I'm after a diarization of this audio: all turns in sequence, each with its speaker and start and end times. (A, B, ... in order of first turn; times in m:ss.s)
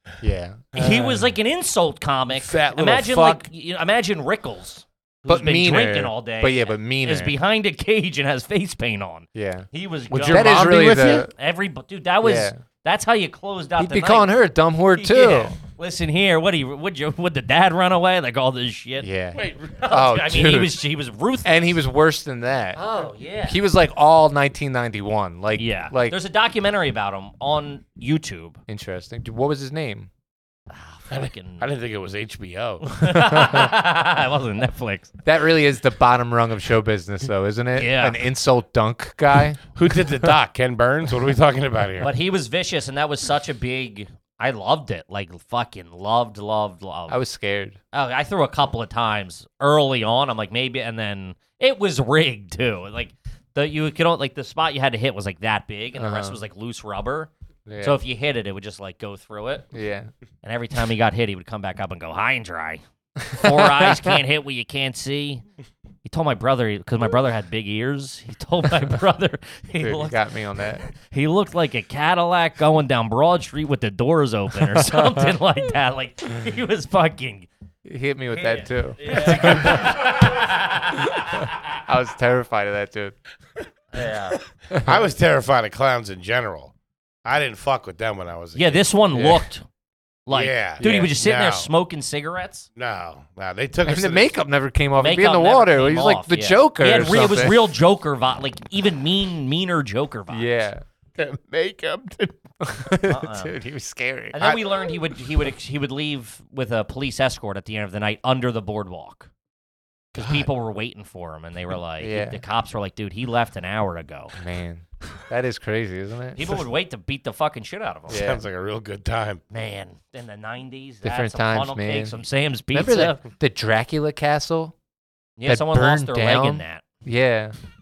0:00.2-0:01.3 A
0:00.8-0:14.3 B
0:02.4-0:03.5 C
0:05.3-0:07.3 A
0:09.4-0:09.7 A
0:10.1-0:11.3 C
0:10.3-0:11.3 A
0:12.2-0:12.6 A
0:13.8-0:15.6 A
0:15.0-0:21.8 B
0:19.0-0:20.8 A
0:19.4-0:19.7 C
0:21.4-0:22.8 A
0:22.8-0:23.6 B
0:23.5-0:26.2 A
0:25.6-0:28.6 B
0:28.7-0:30.1 A
0:30.7-0:31.7 B
0:31.1-0:32.9 C
0:32.8-0:35.2 B
0:33.2-0:33.7 A
0:35.2-0:40.3 A
0:37.7-0:38.2 B
0:39.8-0:42.1 C
0:42.0-0:47.2 B
0:47.1-0:47.8 A
0:47.9-0:57.3 B
0:56.0-0:56.4 A
0:57.7-0:58.0 A
0:57.8-0:59.7 B
0:59.7-1:00.1 A
1:00.4-1:05.4 B
1:03.2-1:04.1 A
1:06.0-1:17.5 B
1:09.8-1:10.8 A
1:17.8-1:20.3 A
1:18.3-1:21.5 B
1:21.8-1:23.2 A
1:23.9-1:24.4 B
1:24.7-1:26.7 C
1:24.7-1:25.0 A
1:27.2-1:28.9 C
1:28.6-1:29.6 B
1:29.1-1:29.4 A
1:30.3-1:32.7 B
1:30.3-1:31.7 C
1:30.8-1:31.1 A
1:32.8-1:34.4 C
1:33.8-1:37.7 A
1:35.0-1:40.5 B
1:40.3-1:40.8 A
1:41.2-1:42.4 C
1:42.6-1:44.4 A
1:43.0-1:43.5 B
1:44.3-1:49.3 B
1:44.4-1:44.9 C
1:50.2-1:54.3 B
1:52.0-1:52.4 A
1:54.4-1:56.6 A
1:56.4-1:58.2 B
1:58.1-1:58.4 A
1:58.1-1:59.4 C
1:59.5-2:03.2 B
2:01.0-2:02.1 A
2:02.7-2:04.8 A
2:05.4-2:06.8 B
2:05.5-2:07.6 A